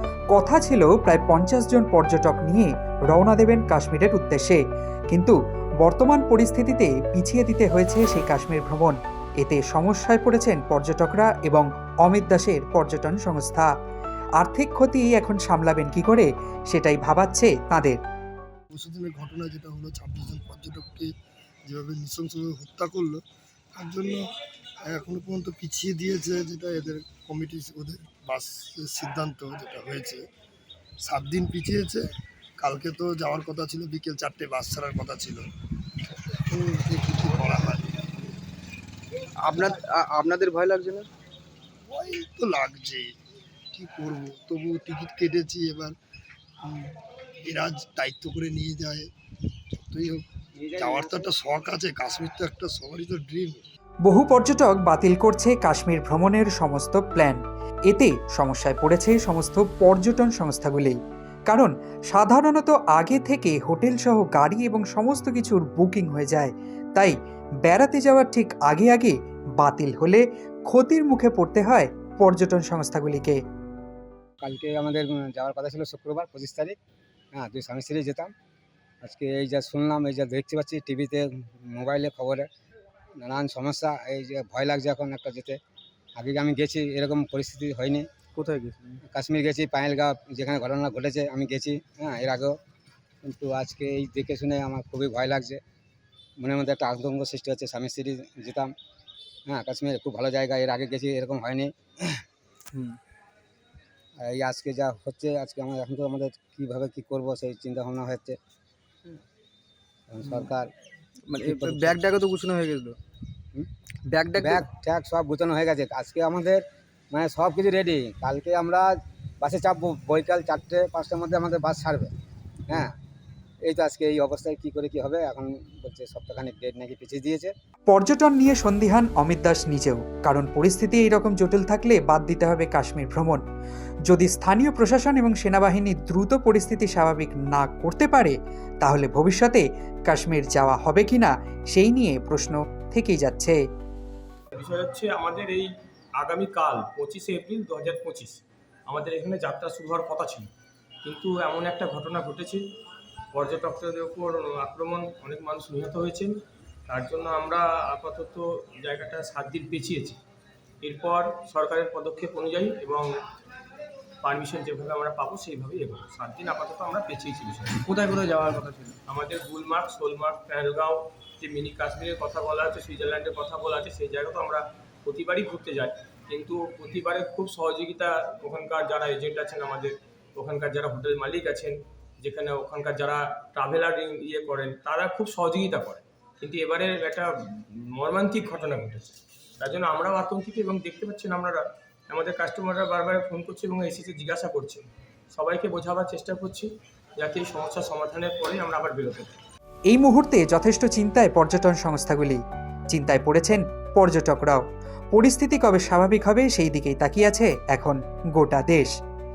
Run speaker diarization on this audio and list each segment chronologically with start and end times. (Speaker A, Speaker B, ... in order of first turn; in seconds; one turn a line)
Speaker A: 0.3-4.6
Speaker A: 5.1-13.7
Speaker A: 14.4-18.0
Speaker B: 18.7-21.1
Speaker B: 21.6-23.2
Speaker B: 23.7-24.2
Speaker B: 24.9-30.2
Speaker B: 31.1-32.0
Speaker B: 32.6-35.4
Speaker B: 36.3-38.0
Speaker C: 39.5-41.1
Speaker B: 41.9-43.1
Speaker B: 43.7-45.9
Speaker B: 46.6-49.1
Speaker B: 49.7-50.2
Speaker D: 50.6-51.3
Speaker B: 50.8-53.6
Speaker A: 54.0-61.0
Speaker A: 61.5-73.4
Speaker D: 74.4-76.8
Speaker D: 77.3-78.3
Speaker D: 79.0-82.5
Speaker D: 83.2-85.6
Speaker D: 86.2-88.0
Speaker C: 88.3-89.0
Speaker D: 89.1-92.5
Speaker D: 93.2-95.6
Speaker D: 96.4-98.7
Speaker D: 99.5-102.2
Speaker C: 102.7-103.0
Speaker D: 104.2-108.4
Speaker D: 110.1-110.7
Speaker C: 111.3-113.0
Speaker D: 111.4-112.0
Speaker C: 114.1-114.7
Speaker D: 114.4-122.1
Speaker D: 122.7-122.9
Speaker D: 123.6-127.5
Speaker A: 127.9-133.4
Speaker A: 134.1-143.6
Speaker E: 144.5-150.5
Speaker E: 151.0-152.6
Speaker E: 153.3-160.2
Speaker E: 160.8-163.1
Speaker E: 164.2-199.4
Speaker A: 199.9-208.9